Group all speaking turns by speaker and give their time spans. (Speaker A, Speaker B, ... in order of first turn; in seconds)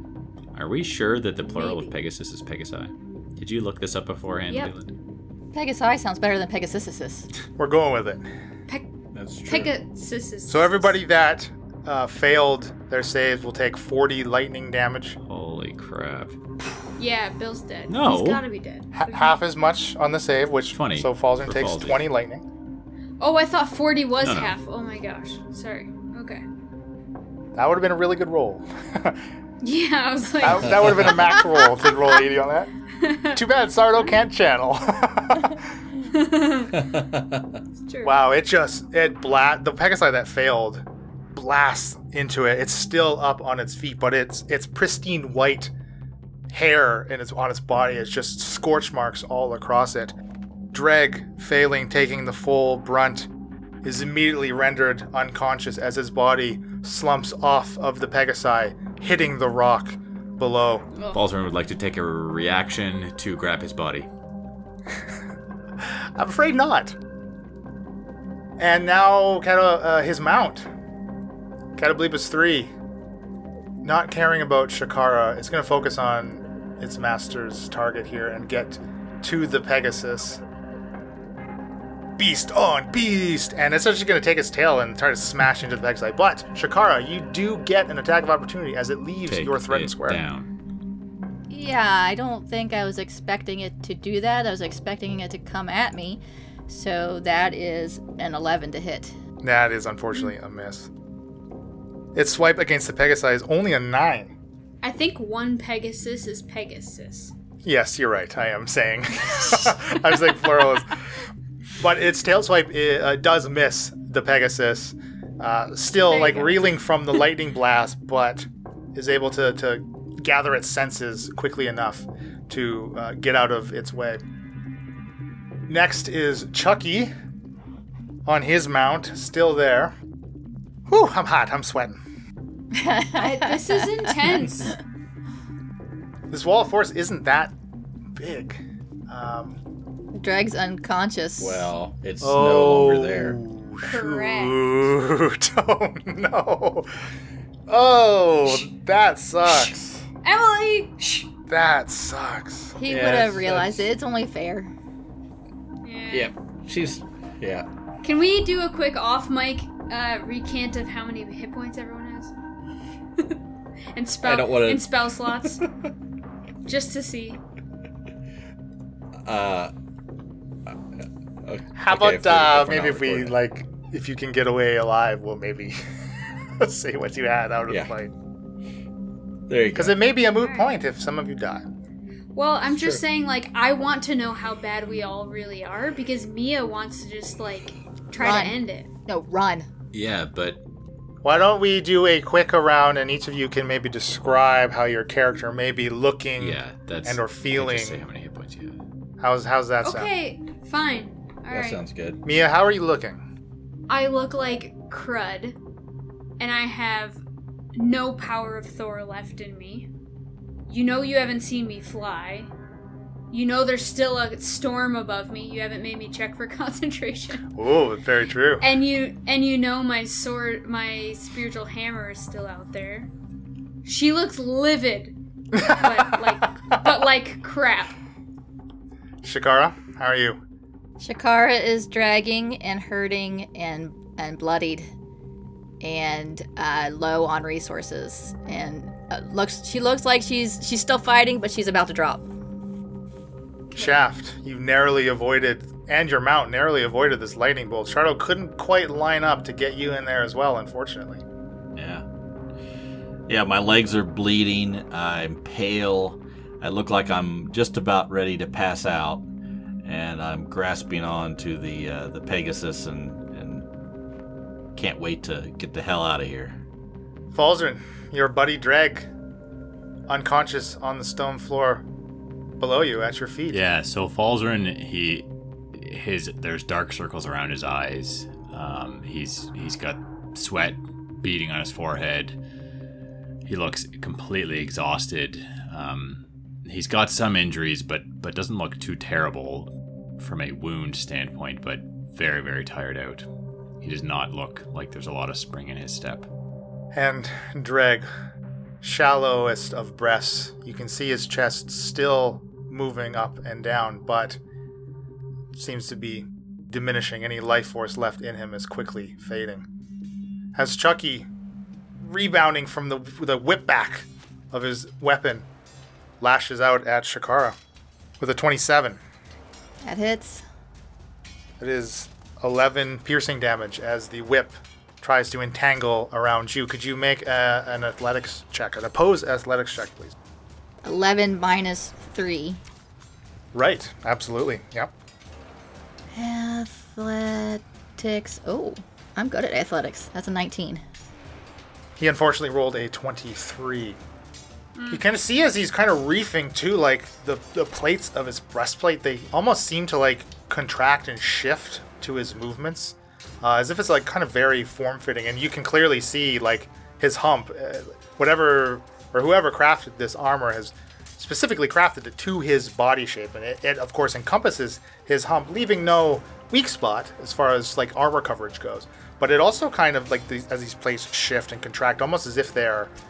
Speaker A: 0.5-4.9, 15.3-16.4, 17.9-18.4, 20.7-22.1, 24.2-24.6, 61.1-64.1, 89.3-90.5, 189.9-190.6, 196.4-198.8, 273.5-282.4, 283.5-293.3, 293.8-296.3
Speaker B: 1.4-1.9, 9.5-10.9, 17.0-19.4, 23.2-26.4, 29.6-32.2, 33.0-33.4, 36.1-36.9, 37.8-38.2, 61.0-61.2, 104.8-107.3, 109.3-109.9, 116.1-116.7, 133.2-134.8, 143.8-144.7, 150.2-151.3, 155.8-156.3, 158.0-162.3, 163.9-165.6, 166.7-167.4, 180.3-180.8, 182.3-188.9, 199.8-201.8, 203.9-205.6, 206.4-207.2, 207.8-209.9, 210.7-212.5, 213.3-217.4, 218.6-223.1, 223.8-228.0, 344.8-345.1
Speaker C: 5.5-7.3, 91.5-99.1, 132.7-134.7, 140.1-141.7, 152.8-154.7, 188.2-189.7, 231.0-234.9, 235.8-242.2, 319.8-320.4, 330.8-332.6, 336.1-340.8
Speaker D: 7.6-8.3, 10.5-15.2, 18.9-22.5, 27.6-29.2, 30.4-32.7, 33.3-35.7, 38.0-45.7, 46.5-50.2, 50.7-53.3, 53.8-60.9, 65.8-67.0, 68.6-70.7, 71.8-72.7, 73.8-80.4, 82.2-90.2, 99.4-100.9, 102.2-104.3, 107.6-111.0, 111.8-124.2, 125.7-127.1, 128.3-129.9, 130.9-132.0, 136.3-137.5, 138.1-139.6, 142.2-147.0, 147.7-149.8, 151.5-152.8, 171.8-175.8, 176.4-178.1, 179.8-181.7, 191.2-198.1, 199.2-200.1, 202.2-203.2, 217.6-218.7, 225.6-226.3, 229.2-230.4, 243.7-251.2, 267.3-269.1, 270.1-271.9, 272.6-273.6, 296.9-298.1, 298.8-304.4, 305.5-309.7, 310.6-311.3, 312.0-315.5, 316.2-317.6, 318.2-319.0, 321.6-330.1, 333.5-334.9, 342.0-344.0, 344.9-372.9
Speaker E: 9.1-9.7, 30.6-31.1, 36.8-37.6, 141.4-143.4, 152.9-153.9, 156.1-157.7, 164.2-165.6, 169.2-169.7, 171.4-173.3, 179.5-180.0, 182.7-183.0, 201.5-202.2, 251.8-252.1, 253.3-259.2, 259.8-263.7, 264.8-266.6